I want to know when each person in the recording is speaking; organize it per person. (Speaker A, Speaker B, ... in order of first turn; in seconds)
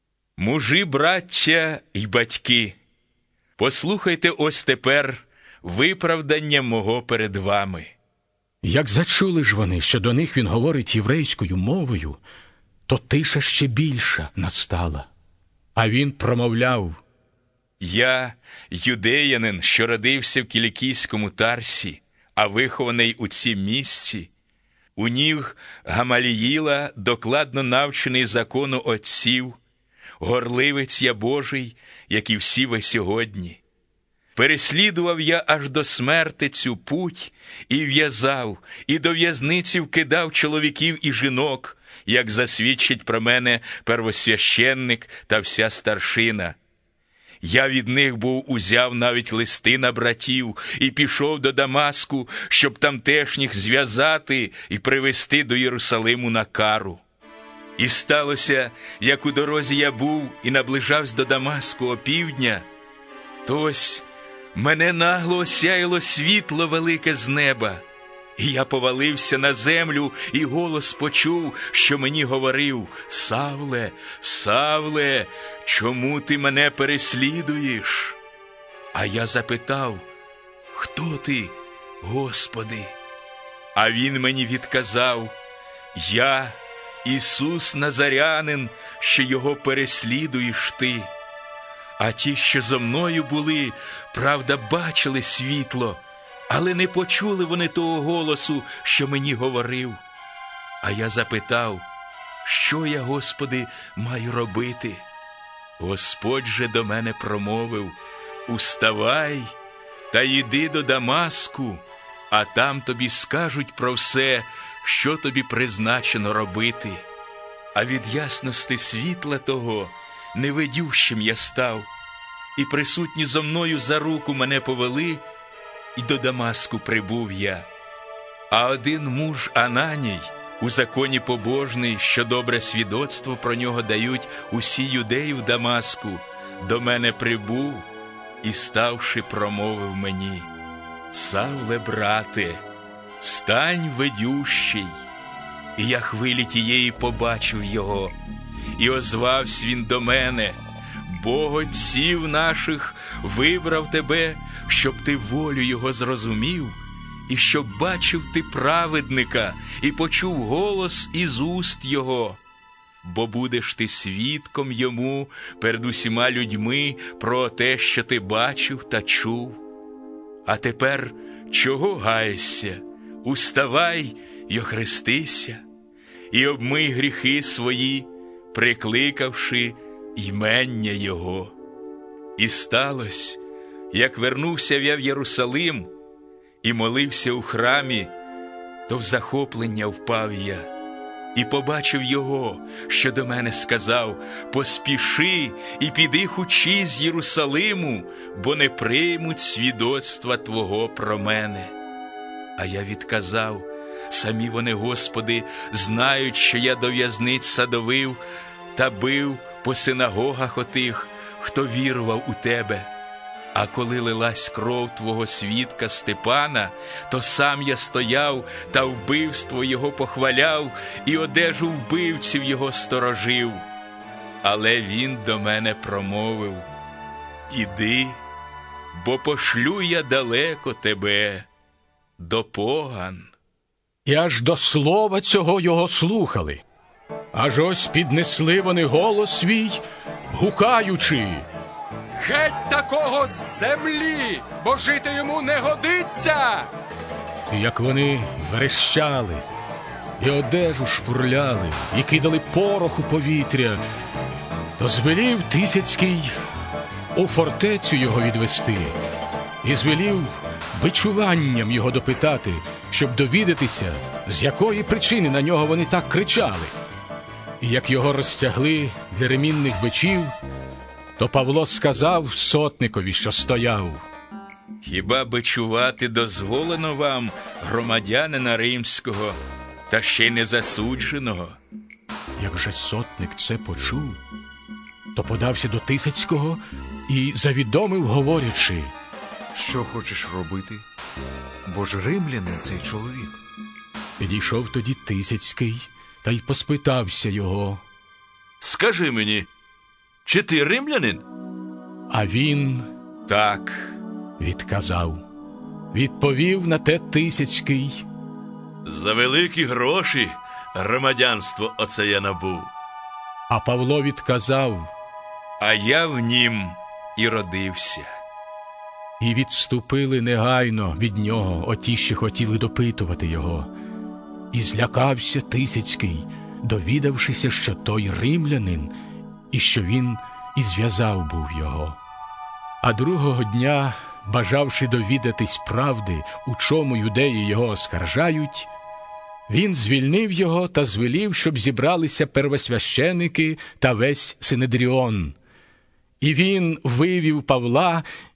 Speaker A: 0.4-2.8, 3.6-8.0, 17.8-24.3, 25.0-29.6, 30.2-33.6, 34.4-46.6, 47.4-57.0, 57.8-62.7, 63.5-67.8, 68.4-78.2, 78.9-80.1, 80.7-83.0, 83.8-85.3, 86.0-91.1, 92.0-100.0, 100.8-101.9, 102.5-105.0, 105.8-109.5, 110.1-117.1, 117.8-121.9, 122.6-125.2, 126.0-127.7, 128.5-137.9, 138.4-140.5, 141.1-142.6, 143.2-145.0, 145.8-148.2, 148.8-156.8, 157.3-162.4, 163.0-169.6, 170.5-175.6, 176.3-181.6, 182.4-183.4, 183.9-185.9, 186.6-188.1, 188.9-190.7, 191.3-201.7, 202.6-208.2, 208.7-212.9, 213.6-223.7, 224.4-226.7, 227.5-228.2, 228.9-231.5, 232.2-233.3, 274.8-279.4, 279.9-281.6, 303.3-304.0, 315.6-318.2
Speaker B: 8.6-12.2, 12.9-15.1, 15.8-17.0, 234.1-236.6, 237.3-241.4, 247.5-249.4, 250.2-253.8, 254.8-256.3, 257.1-259.0, 259.6-266.7, 267.6-270.3, 271.2-274.0, 282.4-284.2, 285.1-288.9, 294.2-297.8, 302.1-302.9, 304.4-305.2, 305.9-308.1, 313.5-314.9, 319.2-323.7, 324.5-328.9, 329.5-332.0, 332.8-338.7, 339.5-345.4, 346.2-348.0
Speaker C: 242.2-246.7
Speaker D: 289.5-290.8, 291.7-293.4
Speaker E: 298.6-299.5, 300.3-301.2, 308.9-312.7